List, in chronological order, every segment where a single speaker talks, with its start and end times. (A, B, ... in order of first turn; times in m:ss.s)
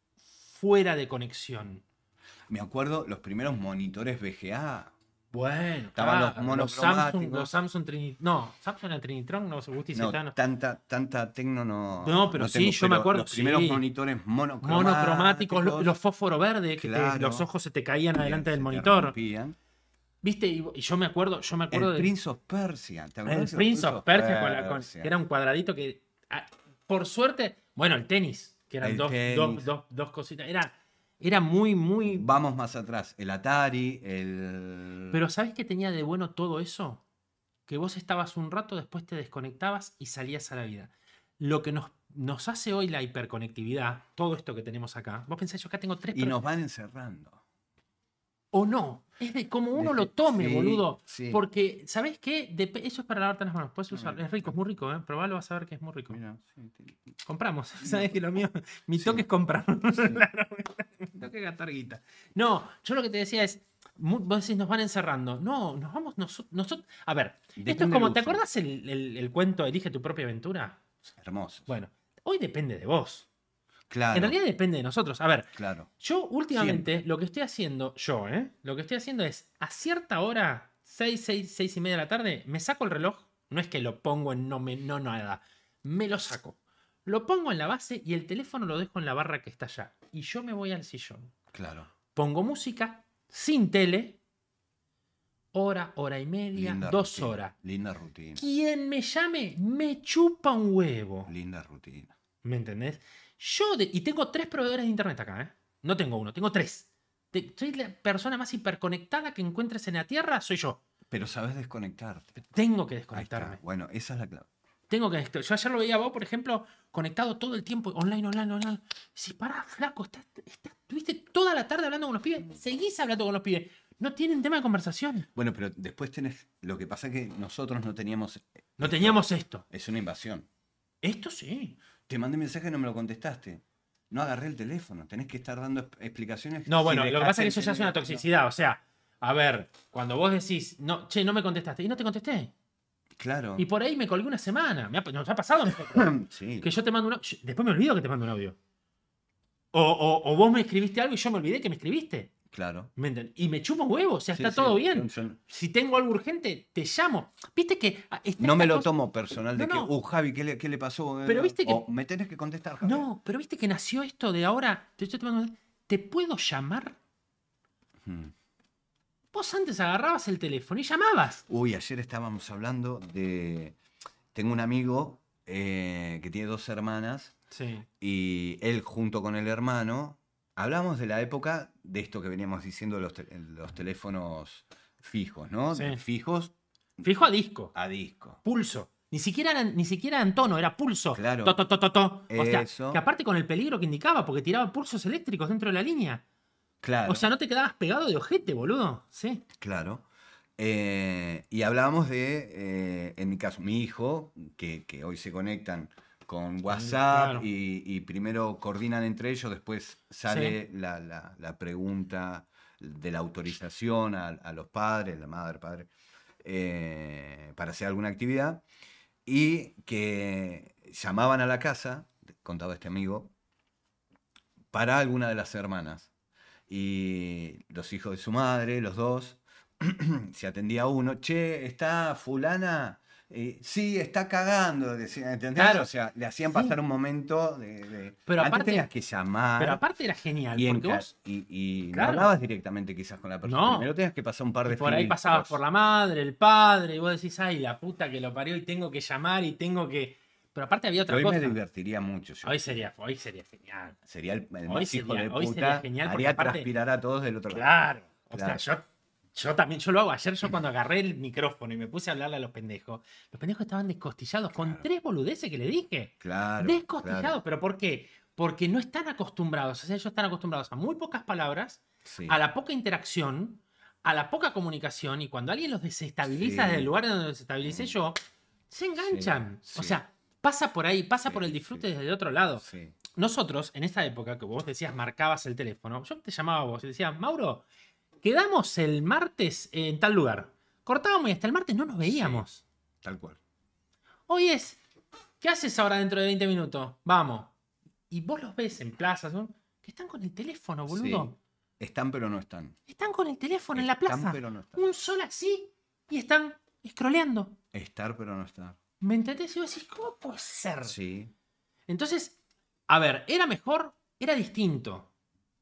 0:00.5-0:01.8 A
0:02.5-0:04.9 B
0:05.3-0:10.3 A
0:05.9-0:07.5 B
0:09.9-0:15.9 B
0:12.0-0:13.8 A
0:14.6-0:19.1 A
0:16.8-0:17.5 B
0:18.2-0:19.6 B
0:20.2-0:22.1 A
0:21.7-0:25.1 B
0:23.2-0:32.3 A
0:28.8-0:29.7 B
0:32.0-0:35.2 B
0:35.1-0:37.0 A
0:37.7-0:46.4 A
0:46.1-0:47.4 B
0:48.5-0:56.2 A
0:49.7-0:51.4 B
0:53.9-0:54.5 B
0:56.1-0:57.1 B
0:57.2-1:10.8 A
0:57.8-0:58.1 B
0:59.0-0:59.2 B
1:00.0-1:00.2 B
1:07.6-1:08.4 B
1:11.2-1:11.7 B
1:11.7-1:13.3 A
1:13.9-1:14.4 B
1:14.1-1:31.3 A
1:15.5-1:15.9 B
1:16.5-1:17.0 B
1:31.5-1:31.9 B
1:32.1-1:34.2 A
1:35.5-1:37.5 A
1:36.5-1:38.4 B
1:38.4-1:41.3 A
1:41.3-1:42.1 B
1:42.4-1:50.8 A
1:51.1-1:52.4 B
1:52.4-1:53.6 A
1:53.1-1:54.5 B
1:54.9-2:05.3 A
2:05.3-2:10.5 B
2:08.8-2:09.6 A
2:11.0-2:11.8 A
2:12.1-2:18.2 B
2:16.7-2:22.5 A
2:23.2-2:23.6 B
2:23.6-2:28.6 A
2:25.9-2:26.7 B
2:29.7-2:32.3 A
2:32.5-2:32.9 B
2:33.0-2:38.9 A
2:34.3-2:35.4 B
2:38.4-2:43.1 B
2:39.5-2:39.9 A
2:41.2-2:41.8 A
2:42.8-2:47.0 A
2:48.0-2:48.3 B
2:49.3-2:51.4 A
2:51.5-2:53.8 B
2:54.3-2:57.3 B
2:57.5-2:57.8 A
2:58.0-3:07.0 B
3:05.7-3:06.0 A
3:07.0-3:07.7 A
3:07.7-3:08.4 B
3:08.4-3:16.2 A
3:11.1-3:11.6 B
3:12.3-3:13.0 B
3:16.8-3:17.3 B
3:17.0-3:19.4 A
3:19.6-3:20.0 B
3:20.6-3:35.9 B
3:26.7-3:27.4 A
3:30.3-3:30.6 A
3:36.4-3:38.6 B
3:39.2-3:43.3 B
3:44.7-3:46.1 B
3:46.7-3:59.8 B
3:55.6-3:55.9 A
3:58.3-3:58.9 A
3:59.6-4:01.1 A
4:00.5-4:05.6 B
4:01.9-4:02.3 A
4:03.4-4:03.9 A
4:04.6-4:11.6 A
4:11.1-4:12.7 B
4:12.4-4:14.0 A
4:14.1-4:17.6 B
4:14.6-4:16.7 A
4:17.5-4:38.2 A
4:18.3-4:18.6 B
4:24.6-4:24.8 B
4:26.2-4:27.4 B
4:32.0-4:32.4 B
4:36.3-4:36.9 B
4:37.6-4:37.9 B
4:38.7-4:47.6 A
4:39.0-4:40.0 B
4:41.2-4:41.9 B
4:42.6-4:43.0 B
4:48.2-4:52.6 A
4:52.0-4:52.4 B
4:53.0-4:53.4 B
4:54.3-4:54.8 A
4:55.4-4:57.5 A
4:58.1-5:01.4 A
5:00.9-5:02.8 B
5:02.9-5:07.6 A
5:03.7-5:04.8 B
5:07.7-5:08.8 B
5:09.0-5:11.0 A
5:10.8-5:11.3 B
5:11.9-5:15.1 A